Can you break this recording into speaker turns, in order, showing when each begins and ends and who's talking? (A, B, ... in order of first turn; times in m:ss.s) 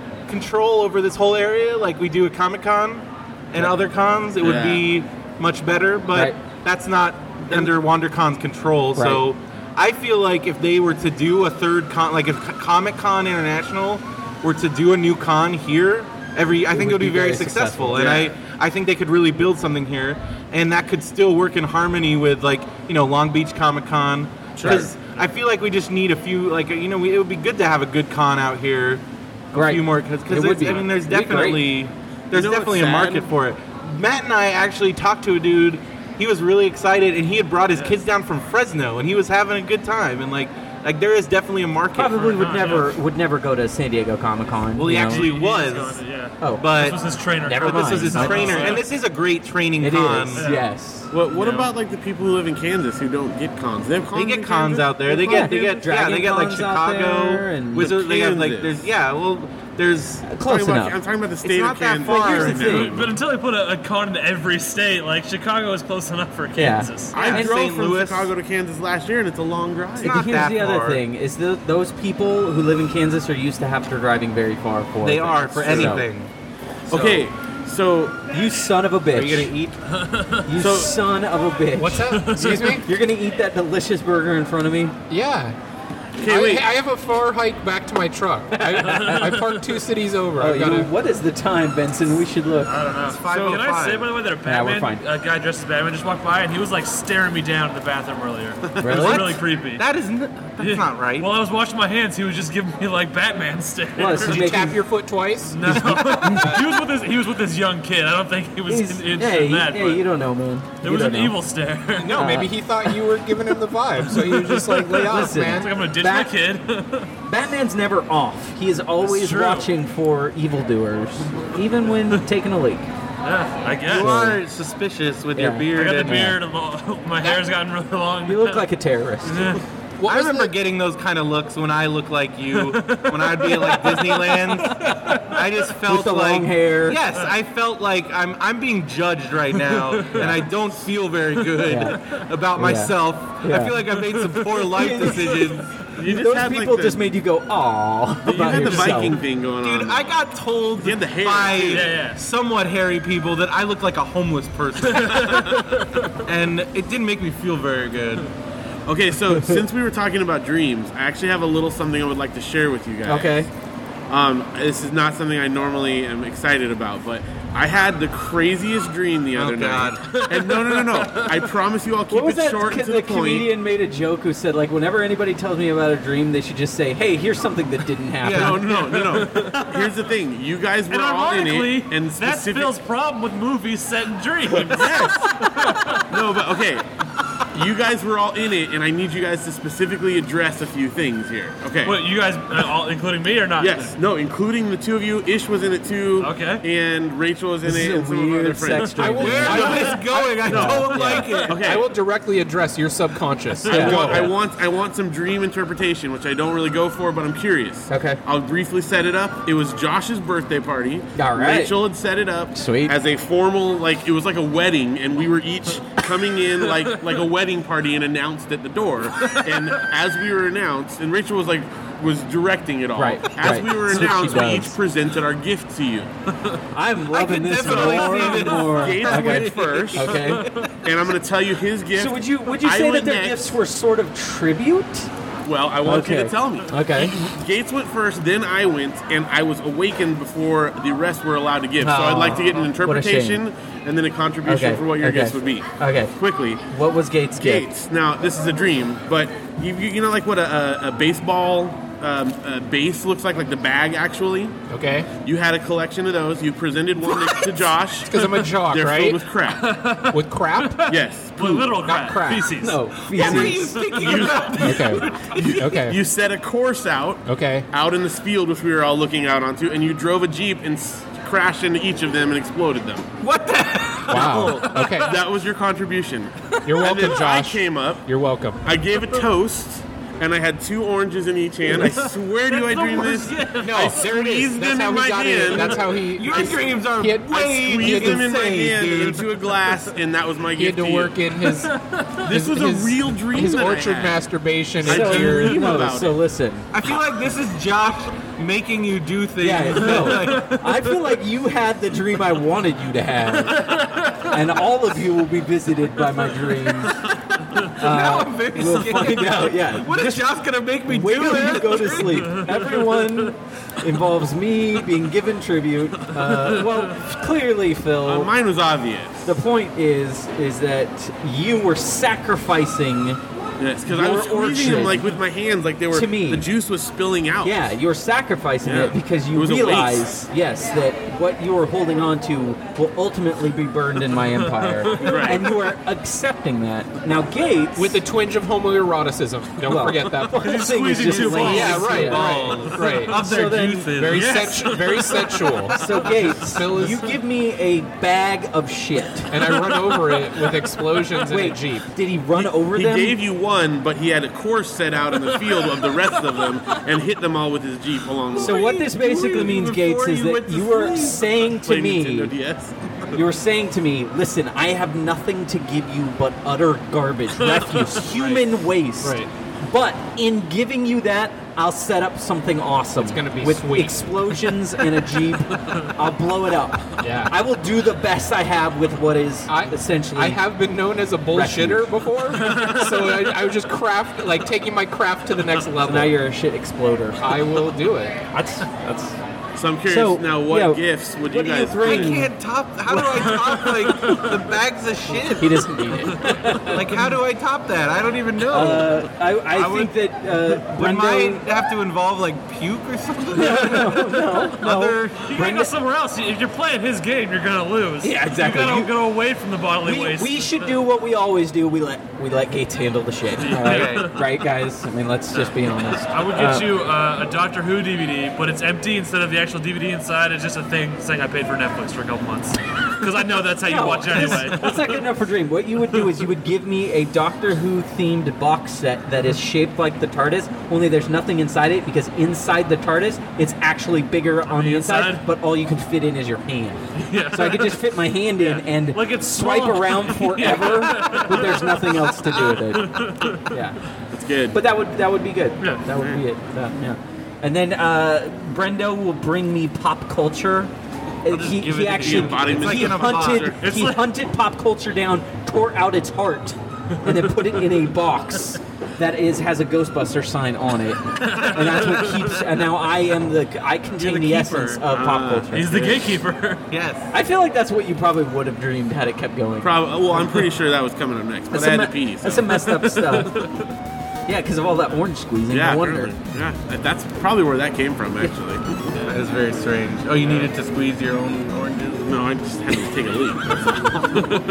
0:00.3-0:42.2 A
0:04.4-0:04.8 B
0:09.0-0:09.3 C
0:16.7-0:18.1 C
0:18.0-0:18.3 B
0:24.6-0:24.9 B
0:24.6-0:24.9 C
0:29.5-0:31.6 C
0:32.3-0:33.3 B
0:42.0-0:45.3 C
0:42.1-0:42.9 D
0:44.8-0:46.0 A
0:45.1-0:48.9 D
0:46.4-0:46.6 C
0:46.6-0:47.0 A
0:47.4-0:48.7 C
0:47.5-0:50.4 A
0:49.8-0:51.1 C
0:50.4-0:50.7 D
0:51.1-0:55.7 B
0:51.3-0:51.7 D
0:54.1-1:00.3 A
0:55.1-0:57.9 C
0:57.8-0:58.8 B
1:00.2-1:01.0 C
1:00.4-1:03.1 B
1:01.4-1:02.9 A
1:02.0-1:02.9 C
1:02.6-1:07.2 D
1:06.6-1:07.5 C
1:07.1-1:10.2 B
1:07.1-1:08.3 A
1:10.0-1:11.0 A
1:10.0-1:16.1 C
1:15.0-1:16.3 A
1:15.6-1:16.0 B
1:16.9-1:17.3 A
1:16.9-1:18.2 B
1:18.3-1:19.6 C
1:19.1-1:19.8 A
1:19.9-1:20.5 D
1:20.4-1:25.0 C
1:20.6-1:21.0 B
1:21.8-1:22.9 E
1:22.1-1:22.8 D
1:25.1-1:25.6 E
1:26.2-1:26.7 B
1:26.2-1:30.9 E
1:28.5-1:29.3 C
1:28.8-1:29.7 D
1:30.4-1:32.8 C
1:32.6-1:39.8 D
1:33.1-1:34.1 A
1:33.2-1:33.6 B
1:34.4-1:35.0 C
1:38.8-1:39.2 C
1:38.9-1:41.3 A
1:40.6-1:44.6 D
1:44.0-1:44.8 C
1:44.2-1:46.7 E
1:45.5-1:50.0 D
1:45.7-1:46.5 C
1:48.7-1:51.4 C
1:50.8-1:52.3 D
1:52.0-1:55.7 E
1:52.1-1:52.5 C
1:54.1-1:57.1 D
1:55.1-1:56.3 C
1:57.3-2:02.9 C
1:59.0-1:59.7 D
2:03.2-2:04.2 D
2:03.9-2:06.4 A
2:04.0-2:04.4 C
2:05.4-2:06.2 C
2:05.7-2:08.6 D
2:08.3-2:09.6 C
2:09.2-2:09.6 D
2:10.0-2:10.5 E
2:10.0-2:25.7 A
2:12.5-2:15.5 D
2:15.9-2:17.0 C
2:19.7-2:20.3 D
2:21.5-2:22.0 D
2:21.6-2:22.0 C
2:22.6-2:23.8 C
2:24.0-2:24.7 D
2:24.7-2:29.2 C
2:25.9-2:27.0 B
2:28.2-2:30.0 B
2:29.6-2:35.7 A
2:30.8-2:31.9 B
2:31.6-2:32.2 D
2:34.8-2:36.2 D
2:36.2-2:38.3 A
2:38.9-2:43.5 B
2:43.1-2:43.5 C
2:44.1-2:53.5 B
2:49.3-2:50.1 A
2:50.1-2:51.5 D
2:52.1-2:58.6 C
2:58.2-2:58.6 A
2:58.3-3:02.7 B
2:58.7-2:59.9 D
3:00.9-3:06.1 D
3:04.5-3:06.9 B
3:07.4-3:12.0 B
3:11.8-3:13.9 D
3:13.6-3:19.9 B
3:16.2-3:16.6 D
3:17.6-3:19.9 C
3:19.0-3:24.3 E
3:19.3-3:21.6 A
3:19.5-3:20.0 D
3:20.4-3:21.0 C
3:20.5-3:21.9 B
3:21.1-3:21.5 D
3:23.5-3:24.3 D
3:23.7-3:24.3 C
3:23.7-3:46.1 B
3:27.9-3:28.2 C
3:31.2-3:31.8 C
3:32.5-3:32.9 C
3:39.3-3:39.8 D
3:43.0-3:44.8 C
3:46.7-3:50.5 C
3:47.1-3:50.7 A
3:47.6-3:50.1 B
3:50.2-3:50.7 D
3:50.8-3:53.6 B
3:51.9-3:55.1 C
3:55.4-4:06.6 B
3:55.8-3:57.3 C
4:01.8-4:03.4 C
4:04.4-4:06.1 C
4:06.7-4:07.7 C
4:07.4-4:14.6 B
4:14.7-4:15.1 E
4:15.2-4:19.7 B
4:18.1-4:19.2 E
4:19.5-4:22.9 D
4:20.1-4:22.5 E
4:20.9-4:21.6 B
4:22.6-4:23.8 C
4:23.1-4:25.6 A
4:23.2-4:33.1 B
4:23.6-4:24.5 D
4:24.6-4:25.1 E
4:25.6-4:26.0 E
4:27.3-4:27.7 E
4:33.2-4:34.7 A
4:34.1-4:35.2 E
4:34.5-4:38.1 B
4:34.5-4:35.1 D
4:36.6-4:38.6 E
4:38.6-4:46.6 B
4:41.7-4:44.1 D
4:43.6-4:44.5 A
4:43.6-4:48.3 E
4:46.1-4:49.3 A
4:47.3-4:51.2 B
4:50.6-4:55.9 E
4:51.4-4:52.2 D
4:52.2-4:54.2 B
4:54.8-4:56.2 B
4:54.8-4:56.7 C
4:56.7-5:00.6 A
4:59.4-5:07.0 C
5:00.0-5:00.8 D
5:03.5-5:04.3 D
5:07.7-5:18.3 C
5:07.8-5:12.6 A
5:12.2-5:13.0 D
5:16.3-5:16.7 D
5:18.0-5:19.3 B
5:19.2-5:23.2 C
5:23.6-5:27.6 B
5:23.9-5:25.2 C
5:25.9-5:26.5 C
5:27.4-5:38.0 C
5:28.6-5:30.1 B
5:34.4-5:35.4 D
5:35.0-5:35.4 B
5:37.8-5:40.7 E
5:39.6-5:43.9 C
5:40.3-5:43.1 D
5:41.0-5:44.4 A
5:41.4-5:43.2 E
5:43.9-5:47.1 E
5:44.1-5:46.0 D
5:45.7-5:49.4 C
5:49.3-5:51.9 E
5:51.2-5:53.2 C
5:52.4-5:58.7 B
5:55.2-5:56.4 D
5:58.3-6:01.2 A
5:58.4-6:02.3 C
6:01.4-6:02.8 B
6:03.1-6:20.4 C
6:07.4-6:08.4 D
6:09.0-6:09.3 E
6:13.0-6:14.6 E
6:17.0-6:17.4 E
6:19.5-6:26.2 E
6:21.3-6:21.9 C
6:22.4-6:23.2 D
6:25.8-6:27.6 C
6:27.2-6:28.2 E
6:28.3-6:29.2 C
6:29.6-6:32.3 B
6:29.9-6:32.3 C
6:31.8-6:35.7 A
6:33.0-6:34.4 D
6:35.4-6:37.1 C
6:36.2-6:36.5 D
6:36.6-6:39.9 A
6:38.5-6:41.4 C
6:40.5-6:45.3 A
6:43.3-6:45.7 C
6:45.2-6:50.7 D
6:48.0-6:48.9 C
6:49.8-6:56.7 C
6:53.4-6:54.2 D
6:53.5-6:54.1 A
6:55.3-7:05.0 D
7:03.6-7:23.8 C
7:14.5-7:15.3 D
7:17.0-7:23.5 D
7:24.1-7:24.6 B
7:24.5-7:30.7 C
7:25.9-7:26.2 B
7:31.2-7:45.9 C
7:31.3-7:33.5 A
7:31.9-7:33.6 B
7:33.6-7:34.1 D
7:37.1-7:37.4 D
7:41.2-7:42.5 D
7:44.0-7:44.8 A
7:44.9-7:46.0 B
7:45.5-7:46.6 D
7:46.7-7:47.1 A
7:47.1-7:49.7 C
7:49.6-7:52.7 B
7:51.5-7:53.4 C
7:52.7-7:53.7 D
7:54.3-7:56.2 C
7:55.5-7:59.1 B
7:59.0-8:02.1 A
8:02.0-8:04.2 B